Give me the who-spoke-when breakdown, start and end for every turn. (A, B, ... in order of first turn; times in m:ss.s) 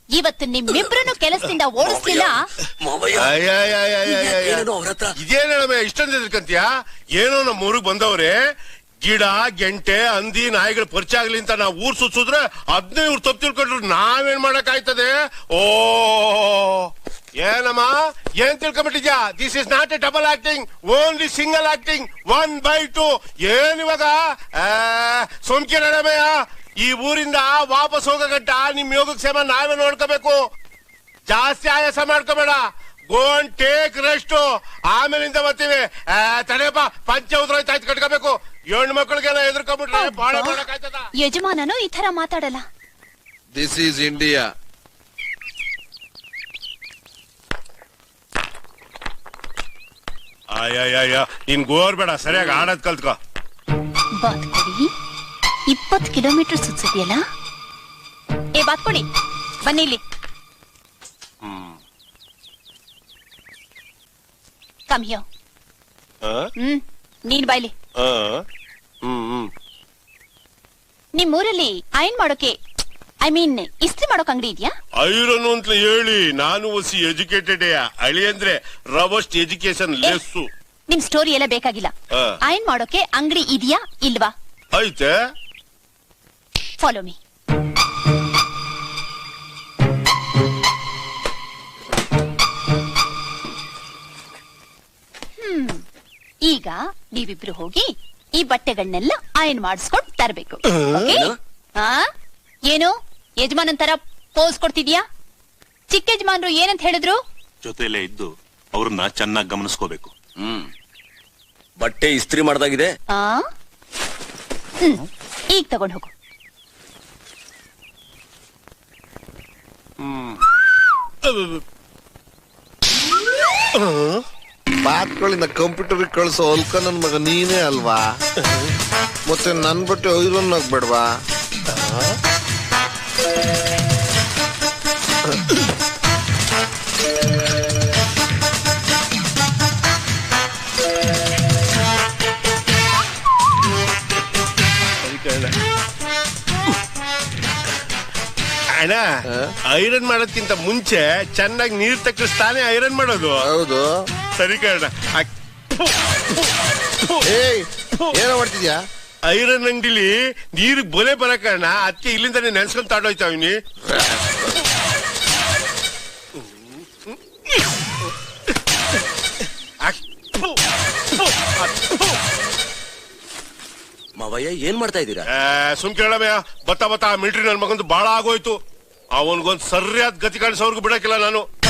0:00.1-0:02.5 A
0:01.8-0:03.3 B
0:03.2-0:04.7 C
0:04.0-0:05.1 B
0:05.2-0:08.4 C
0:09.0-0:30.4 C
0:31.3-0:41.1 C
0:39.9-0:40.6 A
0:41.2-0:42.6 A
0:43.5-0:44.4 D
0:50.6-0:53.1 C
0:54.2-0:54.9 A
0:55.7-0:57.2 A
0:58.6-0:59.0 A
0:59.6-1:00.0 A
1:01.4-1:01.8 C
1:04.9-1:05.2 A
1:06.2-1:06.5 C
1:06.6-1:07.7 A
1:08.0-1:08.4 C
1:09.0-1:09.5 C
1:11.2-1:12.6 A
1:13.2-1:14.8 A
1:15.0-1:20.5 C
1:20.9-1:21.9 A
1:22.5-1:24.3 A
1:24.7-1:25.1 C
1:26.8-1:27.2 A
1:35.4-1:35.8 A
1:36.5-1:42.0 A
1:40.9-1:41.3 B
1:42.7-1:45.0 A
1:45.9-1:47.2 A
1:47.6-1:50.1 E
1:51.8-1:52.9 B
1:53.1-1:53.4 A
1:55.5-1:56.1 A
2:00.0-2:00.4 C
2:01.2-2:01.6 C
2:03.8-2:04.2 C
2:04.8-2:08.1 D
2:09.3-2:11.1 D
2:11.7-2:12.2 C
2:25.0-2:25.6 C
2:28.8-2:29.0 C
2:29.7-2:33.4 C
2:33.4-2:33.9 D
2:34.4-2:36.5 C
2:37.3-2:38.8 D
2:39.2-2:43.5 C
2:46.4-2:47.2 C
2:49.8-2:50.6 C
2:51.2-2:52.2 C
2:54.2-2:55.3 B
2:55.3-2:58.6 C
2:59.2-3:01.4 C